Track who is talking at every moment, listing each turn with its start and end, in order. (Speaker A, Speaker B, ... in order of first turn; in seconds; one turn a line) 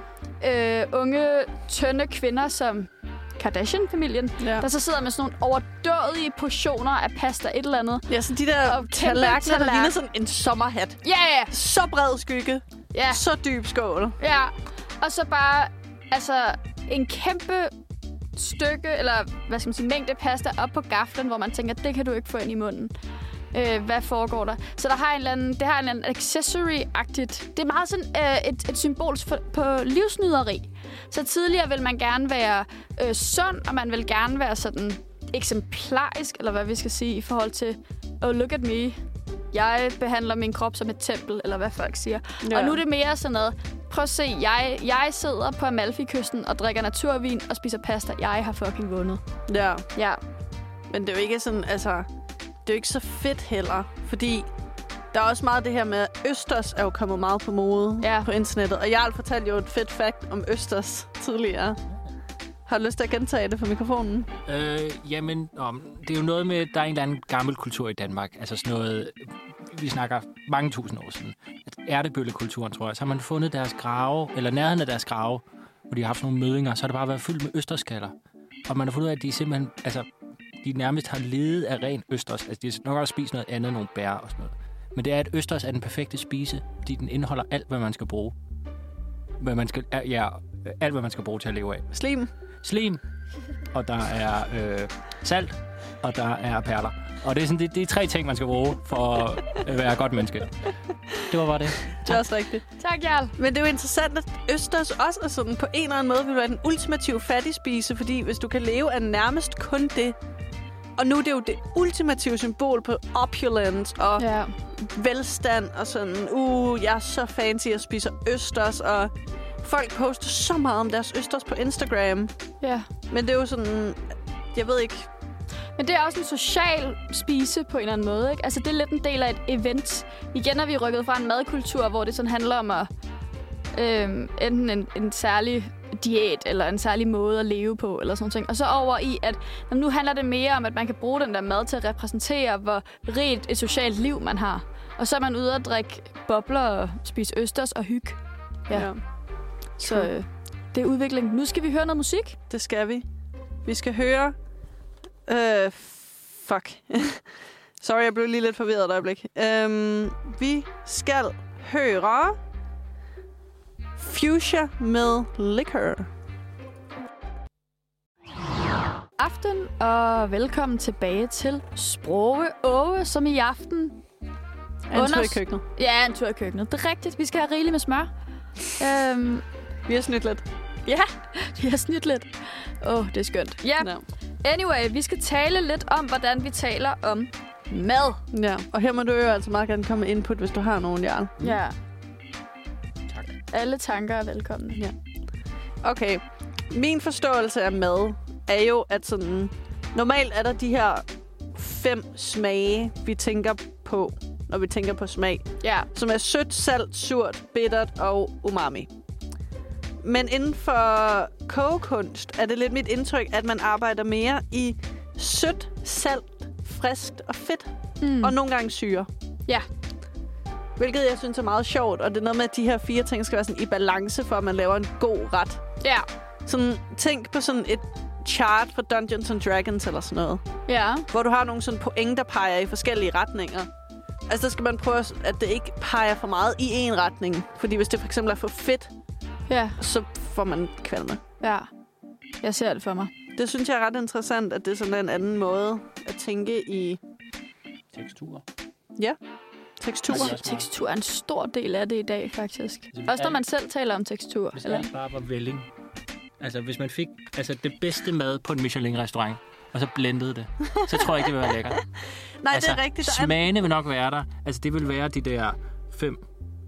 Speaker A: 0.4-8.1
Speaker B: 4.4-4.7
Speaker B: 8.1-11.0
Speaker A: 8.6-9.9
Speaker A: 11.0-11.5
Speaker B: 11.5-14.2
Speaker A: 12.9-13.2
Speaker A: 14.2-17.7
Speaker A: 18.4-22.9
Speaker A: 23.5-39.0
Speaker A: 39.5-49.2
Speaker B: 42.4-42.8
Speaker B: 49.5-49.9
Speaker A: 50.0-50.2
Speaker B: 50.9-52.1
Speaker B: 52.6-54.5
Speaker B: 55.1-61.8
Speaker A: 58.0-58.3
Speaker B: 62.7-64.3
Speaker C: 64.5-78.1
Speaker C: 78.7-80.1
Speaker C: 80.6-88.3
Speaker C: 89.4-91.9
Speaker B: 91.9-92.3
Speaker C: 92.6-93.0
Speaker C: 93.7-102.2
Speaker B: 102.0-102.6
Speaker A: 102.8-103.4
Speaker B: 103.4-110.2
Speaker B: 111.0-122.3
Speaker A: 114.2-114.5
Speaker A: 122.6-122.9
Speaker B: 123.1-125.1
Speaker A: 125.8-132.9
Speaker A: 133.7-148.9
Speaker B: 148.7-149.0
Speaker A: 149.8-152.4
Speaker B: 149.8-150.1
Speaker B: 152.5-153.1
Speaker B: 153.7-154.4
Speaker B: 155.3-157.2
Speaker B: 157.8-162.4
Speaker B: 164.0-166.1
Speaker A: 169.2-174.0
Speaker B: 174.9-175.6
Speaker A: 174.9-178.1
Speaker A: 178.7-179.4
Speaker B: 179.9-180.4
Speaker A: 180.9-183.9
Speaker A: 184.4-188.2
Speaker B: 188.3-191.5
Speaker A: 191.4-191.8
Speaker A: 193.5-194.8
Speaker B: 195.8-208.9
Speaker A: 205.6-205.9
Speaker B: 210.0-217.7
Speaker A: 218.0-218.3
Speaker B: 218.2-219.1
Speaker B: 220.8-225.6
Speaker A: 225.8-226.1
Speaker B: 226.5-230.4
Speaker A: 230.7-231.1
Speaker B: 231.1-233.7
Speaker B: 234.3-238.9
Speaker A: 239.5-239.8
Speaker B: 239.8-241.2
Speaker A: 241.4-241.7
Speaker A: 242.4-243.1
Speaker B: 243.4-247.0
Speaker C: 247.9-248.4
Speaker B: 249.8-250.3
Speaker C: 250.1-250.7
Speaker A: 250.1-254.9
Speaker C: 252.9-253.4
Speaker C: 254.6-255.7
Speaker C: 256.4-261.8
Speaker B: 262.4-263.4
Speaker C: 262.5-266.2